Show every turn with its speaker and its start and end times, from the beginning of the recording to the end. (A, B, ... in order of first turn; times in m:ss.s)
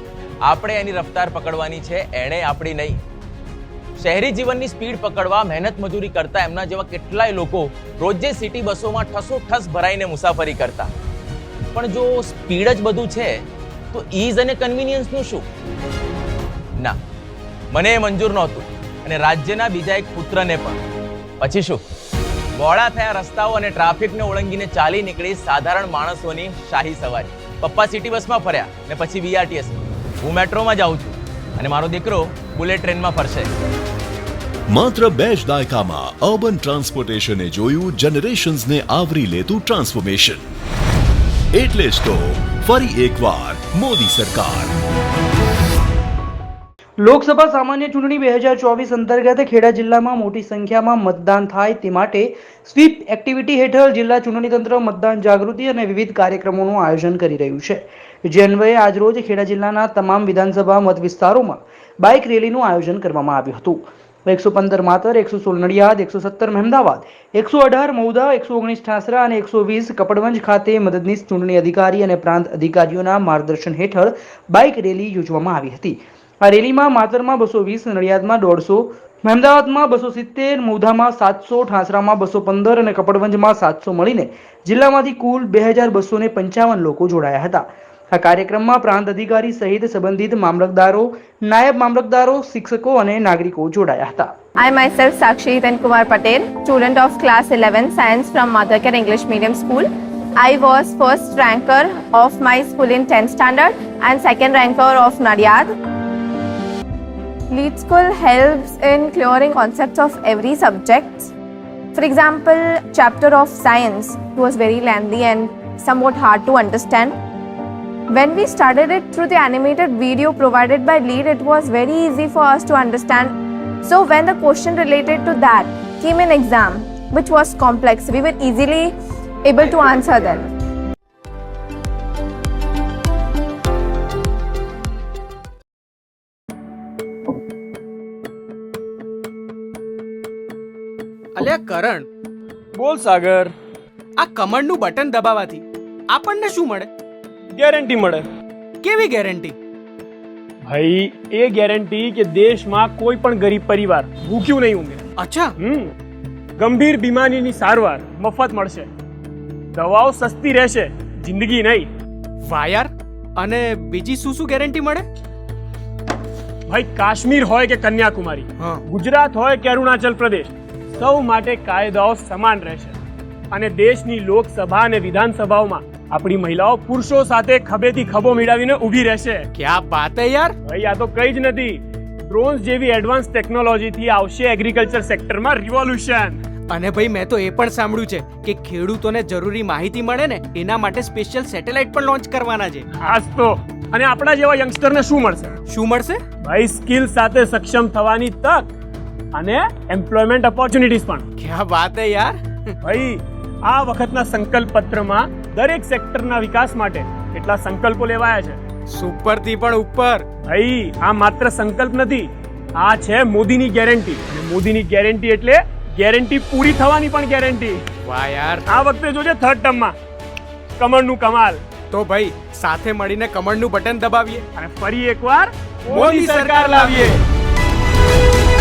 0:00.4-0:03.0 A
0:04.0-0:10.9 A
0:11.7-0:15.4 A
0:17.7-0:20.8 A
0:21.4-0:21.8 A
0:22.6-0:33.5 A
0:34.7-0:40.4 B
0:41.5-0:44.7 B
0:47.0-1:34.3 C
1:34.6-1:39.9 D
1:40.4-1:45.7 D
1:47.5-1:51.3 D
1:51.9-1:57.1 D
1:58.1-2:03.3 D
2:03.8-2:08.9 D
2:09.4-2:10.5 D
2:21.3-2:22.1 E
2:22.7-2:23.5 F
2:24.2-2:26.9 E
2:27.5-2:28.2 F
2:28.8-2:29.6 E
2:30.6-2:35.0 F
2:35.2-2:35.5 E
2:35.6-2:35.9 F
2:36.6-2:38.9 F
2:39.7-2:41.9 F
2:42.4-2:45.1 E
2:46.7-2:52.9 F
2:53.5-2:59.4 F
2:59.5-3:00.6 E
3:00.6-3:06.4 F
3:06.7-3:12.8 E
3:12.9-3:15.6 F
3:15.7-3:16.2 E
3:16.4-3:18.7 F
3:19.3-3:21.2 F
3:21.4-3:22.7 E
3:22.8-3:28.6 F
3:28.9-3:30.2 E
3:30.5-3:37.8 F
3:38.0-3:38.6 E
3:38.7-3:39.9 F
3:40.8-3:41.6 F
3:41.9-3:44.4 E
3:44.6-3:47.2 F
3:45.9-3:47.1 E